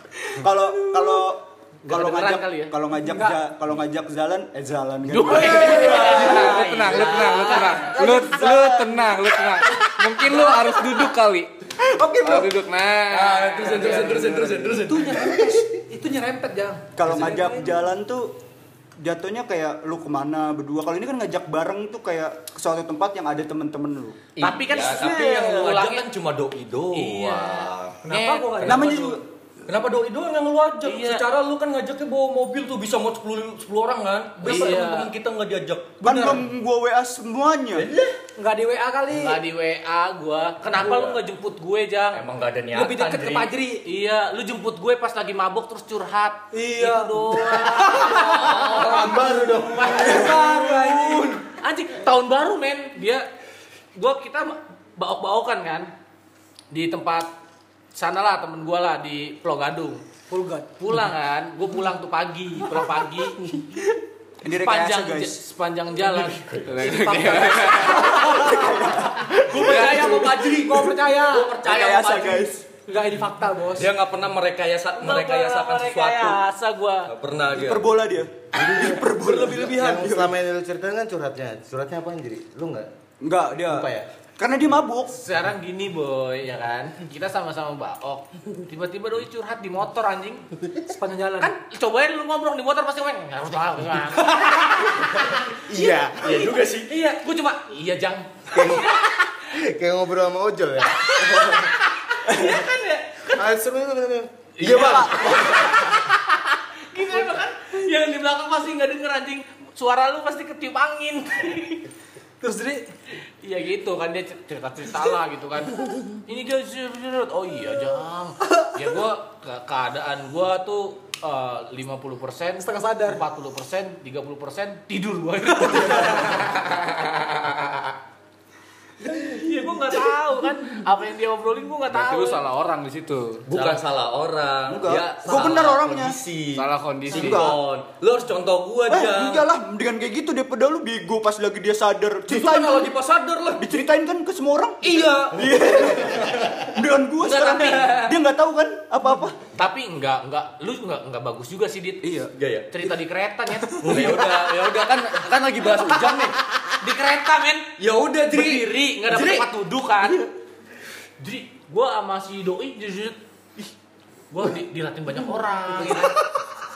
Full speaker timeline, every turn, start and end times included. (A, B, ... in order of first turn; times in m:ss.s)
0:00.4-0:06.6 A
0:00.9-0:01.2 B
0:01.8-0:02.7 C
0:02.9-0:03.4 B
0:05.1-0:07.9 C
0:05.4-0:06.1 B
0:05.8-0:11.5 D
0:07.7-0:09.5 A
0:10.4-0:10.8 A
0:11.8-0:12.5 A
0:12.2-0:13.8 D
0:13.1-0:15.4 E
0:13.7-0:14.4 A
0:13.8-0:17.8 B
0:17.0-0:18.4 A
0:19.0-0:24.2 A
0:24.4-0:28.0 E
0:24.4-0:26.1 C
0:26.9-0:28.8 C
0:28.0-0:29.1 B
0:28.6-0:29.2 A
0:28.6-0:29.0 E
0:29.7-0:36.4 E
0:30.8-0:31.2 C
0:34.4-0:34.9 B
0:34.4-0:35.1 C
0:36.0-0:37.9 A
0:37.7-0:38.1 E
0:38.4-0:39.4 B
0:39.1-0:42.2 C
0:40.8-0:41.1 E
0:42.1-0:43.5 E
0:42.7-0:43.8 B
0:43.8-0:50.3 C
0:46.5-0:47.2 B
0:47.4-0:50.9 F
0:47.8-0:48.8 B
0:49.8-0:51.4 B
0:51.5-0:53.3 C
0:53.9-0:55.9 C
0:56.7-0:57.3 C
0:57.9-1:00.0 C
1:00.3-1:00.7 B
1:00.8-1:03.4 C
1:04.4-1:05.4 A
1:04.6-1:08.4 C
1:06.2-1:07.2 E
1:06.6-1:08.2 D
1:06.8-1:11.6 B
1:08.1-1:10.8 A
1:09.3-1:11.0 C
1:11.2-1:12.4 E
1:11.5-1:12.6 A
1:11.8-1:12.2 C
1:12.9-1:13.9 B
1:13.7-1:16.4 E
1:15.0-1:17.1 C
1:17.1-1:18.0 E
1:17.5-1:20.4 A
1:18.8-1:19.8 E
1:19.6-1:22.9 F
1:23.2-1:25.2 A
1:25.1-1:30.5 C
1:30.9-1:31.5 B
1:31.4-1:35.6 C
1:35.7-1:36.5 F
1:36.2-1:39.3 C
1:36.2-1:36.9 E
1:38.5-1:41.7 F
1:40.8-1:43.4 C
1:42.3-1:42.6 A
1:43.4-1:45.2 F
1:44.6-1:51.9 C
1:44.7-1:45.7 E
1:44.8-1:45.2 A
1:52.4-1:52.9 B
1:53.4-2:06.5 C
2:02.6-2:03.2 B
2:09.1-2:12.4 C
2:11.9-2:13.8 D
2:13.5-2:19.4 E
2:14.7-2:16.2 A
2:16.6-2:17.5 D
2:17.1-2:17.6 A
2:18.9-2:22.9 A
2:22.3-2:23.8 E
2:23.6-2:29.4 A
2:24.8-2:26.7 E
2:27.2-2:28.1 C
2:29.5-2:32.1 C
2:32.0-2:32.3 A
2:32.3-2:32.9 E
2:32.7-2:34.4 C
2:33.7-2:34.3 A
2:33.8-2:36.4 E
2:35.7-2:37.7 C
2:37.8-2:39.5 E
2:38.3-2:40.2 C
2:41.2-2:43.2 C
2:44.3-2:46.2 C